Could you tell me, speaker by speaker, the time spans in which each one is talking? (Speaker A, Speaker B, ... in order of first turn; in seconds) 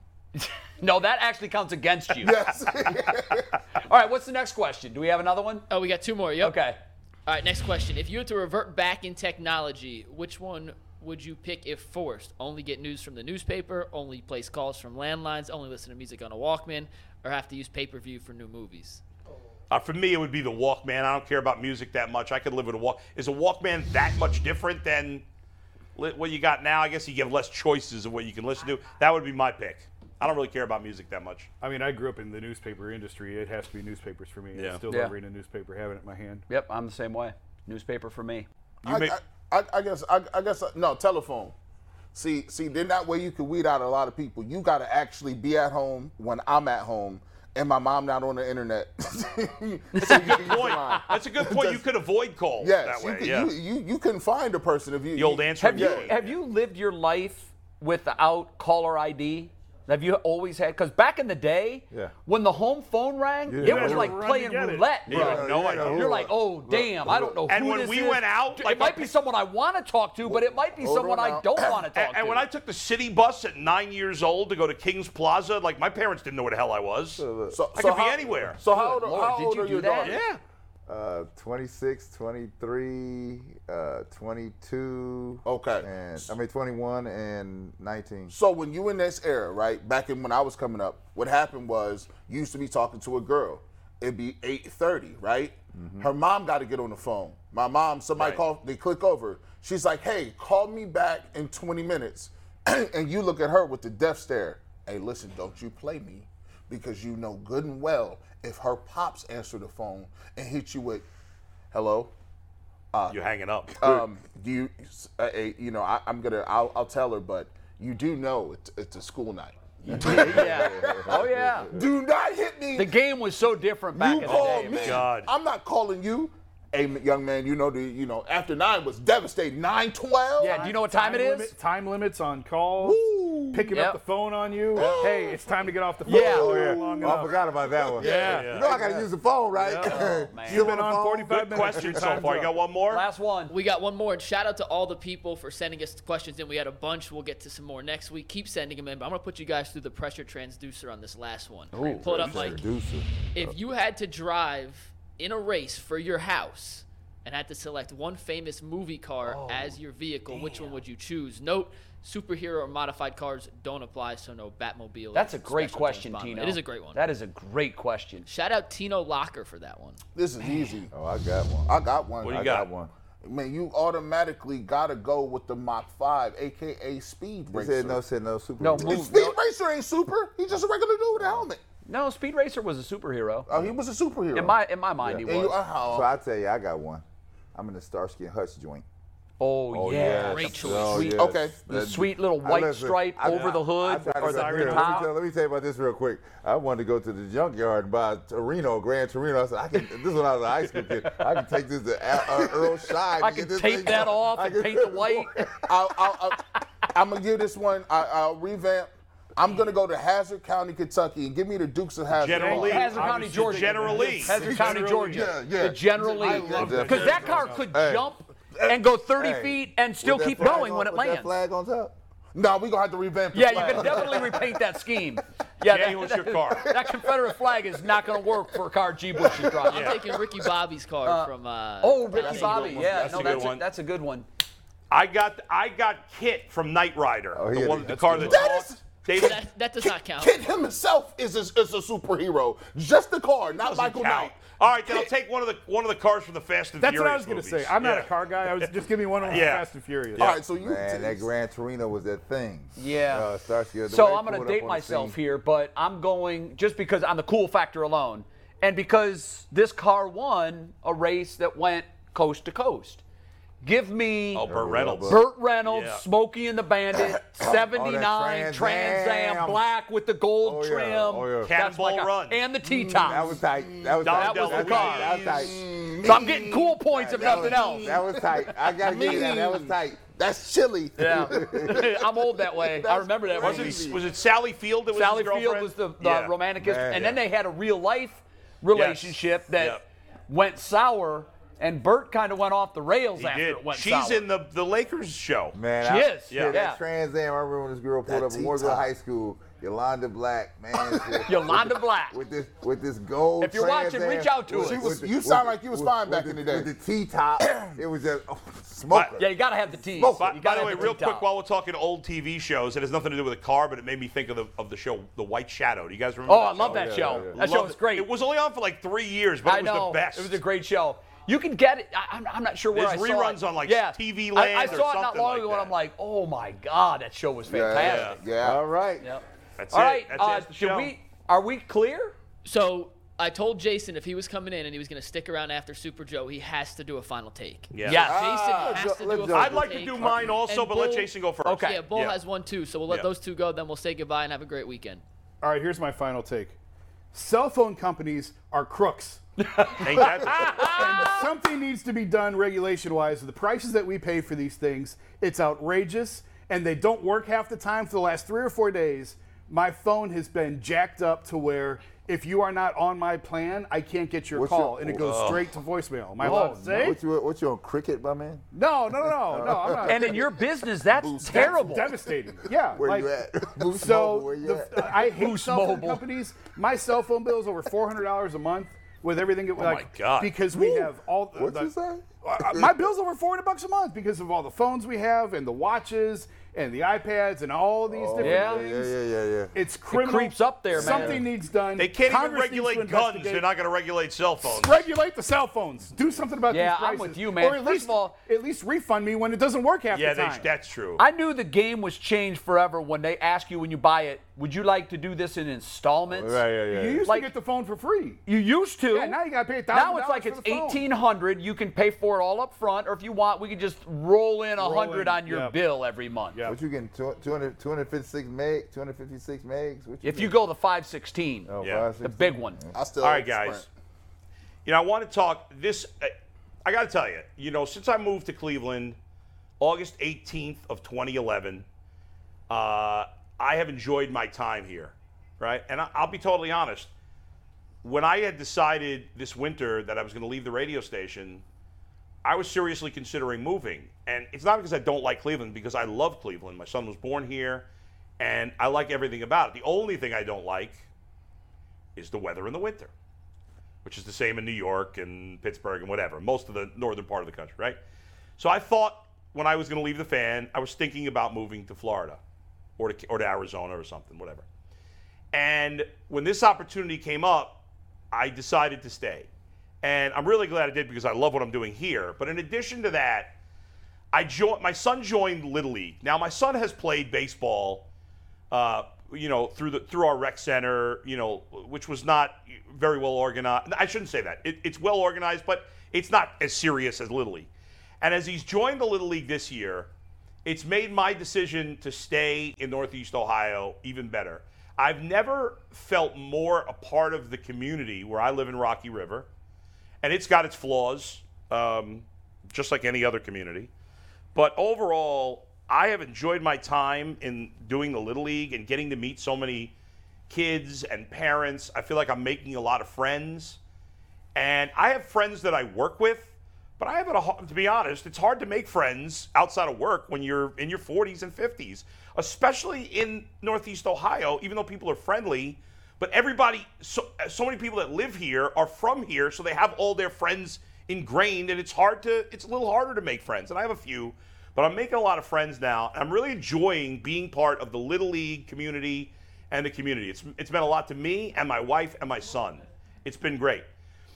Speaker A: 0.3-2.4, 3.8-5.7, 6.4-6.8, 36.5-38.5, 49.9-51.0, 55.6-72.4, 78.7-80.2, 119.8-121.7, 122.7-125.0, 130.4-131.5, 133.7-134.0, 136.0-136.8, 139.8-140.7, 142.9-143.5, 151.7-152.6, 159.2-159.8, 160.3-160.8, 165.1-168.3, 178.6-179.4, 181.8-183.5, 184.3-185.6, 189.4-195.1, 203.2-205.3, 212.5-221.3, 223.3-229.9, 231.0-234.2, 252.8-253.3, 253.9-263.0, 263.6-264.5, 265.1-273.3, 274.1-275.4, 276.0-278.0, 281.0-283.9, 284.9-294.2, 295.8-296.8, 301.2-302.2, 303.4-304.9, 309.2-311.2, 316.3-318.1, 319.4-328.2, 329.0-332.1, 337.8-338.5, 341.4-341.8, 349.4-351.3, 366.2-366.8, 369.8-371.9, 375.1-376.0, 388.2-388.6, 389.9-391.2, 396.5-398.1, 401.0-406.4, 407.0-407.3, 408.2-409.2, 409.7-416.4, 420.0-422.6
Speaker B: 2.2-3.5, 38.8-41.5, 42.1-51.8, 52.6-56.1, 70.3-71.8, 77.5-80.2, 85.4-86.3, 88.3-111.0, 111.7-112.1, 112.9-113.2, 113.7-122.9, 123.9-130.7, 132.8-133.7, 134.7-135.4, 170.1-170.9, 171.7-172.6, 173.2-178.0, 178.8-181.6, 183.5-184.6, 185.2-186.1, 191.1-191.9, 205.7-212.9, 214.5-216.9, 222.3-224.6, 232.2-233.2, 238.1-245.1, 250.2-251.3, 272.6-273.9, 275.0-284.0, 298.1-298.9, 300.8-301.3, 304.5-306.7, 307.4-307.8, 327.4-328.6, 338.0-339.4, 370.9-371.9, 422.7-423.7
Speaker C: 5.7-6.6, 7.2-19.0, 143.5-152.7, 153.3-167.0, 168.2-170.0, 190.2-191.1, 229.6-233.5, 239.1-240.4, 332.4-345.0
Speaker D: 19.7-25.2, 25.9-31.5, 34.5-34.8, 38.8-39.1, 50.0-53.5, 55.1-56.3, 65.1-66.3, 67.5-69.1, 71.9-77.2, 77.7-78.6, 80.0-80.4, 113.1-114.0, 124.2-125.3, 138.0-138.8, 141.3-143.0, 172.2-172.7, 212.1-214.3, 225.7-226.7, 229.7-230.0, 232.4-233.6, 234.9-239.4, 243.6-248.7, 249.2-250.4, 264.3-266.0, 271.4-272.4, 274.0-275.4, 283.4-286.3, 288.7-289.8, 293.2-295.6, 296.3-296.6, 310.2-320.4, 322.7-325.7, 327.8-328.2, 329.6-330.9, 337.7-338.1, 339.3-342.2, 349.8-350.9, 365.0-365.4, 379.6-380.3, 391.8-394.8, 399.9-401.0, 421.6-421.9, 423.0-423.6, 424.6-426.1, 426.6-429.0, 429.6-431.6, 432.5-436.9, 437.8-441.4, 442.2-447.7, 448.2-450.8, 451.9-452.9, 453.8-457.8, 458.4-462.2, 462.8-464.4, 465.3-469.3, 469.8-473.3, 474.1-477.9, 478.5-487.5, 488.0-489.9, 490.4-499.3, 500.0-503.7, 504.3-509.7, 510.3-513.6, 514.3-543.7
Speaker E: 31.6-36.4, 63.6-65.0, 130.4-139.0, 139.6-142.6, 193.3-195.1, 212.3-217.7, 246.8-250.4, 345.4-346.5, 347.1-349.2, 350.0-367.0, 368.5-370.4, 371.3-373.1, 373.6-388.9, 389.5-393.4, 394.4-400.5, 406.6-408.2, 408.9-410.8, 414.6-415.6, 416.3-416.6
Speaker F: 63.5-64.2, 65.1-67.4, 77.2-77.6, 80.9-88.3, 95.7-96.1, 119.9-121.8, 136.1-142.3, 152.0-153.5, 170.9-172.9, 177.5-179.2, 181.1-181.5, 185.9-188.8, 189.7-205.8, 214.4-214.9, 216.2-218.1, 219.2-221.9, 237.3-238.5, 250.5-255.2, 264.4-265.2, 267.4-269.6, 270.4-271.5, 272.9-275.7, 276.9-280.0, 281.2-281.8, 286.6-287.2, 295.5-309.3, 316.6-317.4, 328.4-329.1, 338.5-340.3, 364.3-365.3, 366.7-368.4, 369.0-370.1, 372.8-375.1, 380.5-382.8, 387.9-389.5, 390.7-391.3, 406.1-407.0, 416.4-420.4, 421.5-422.7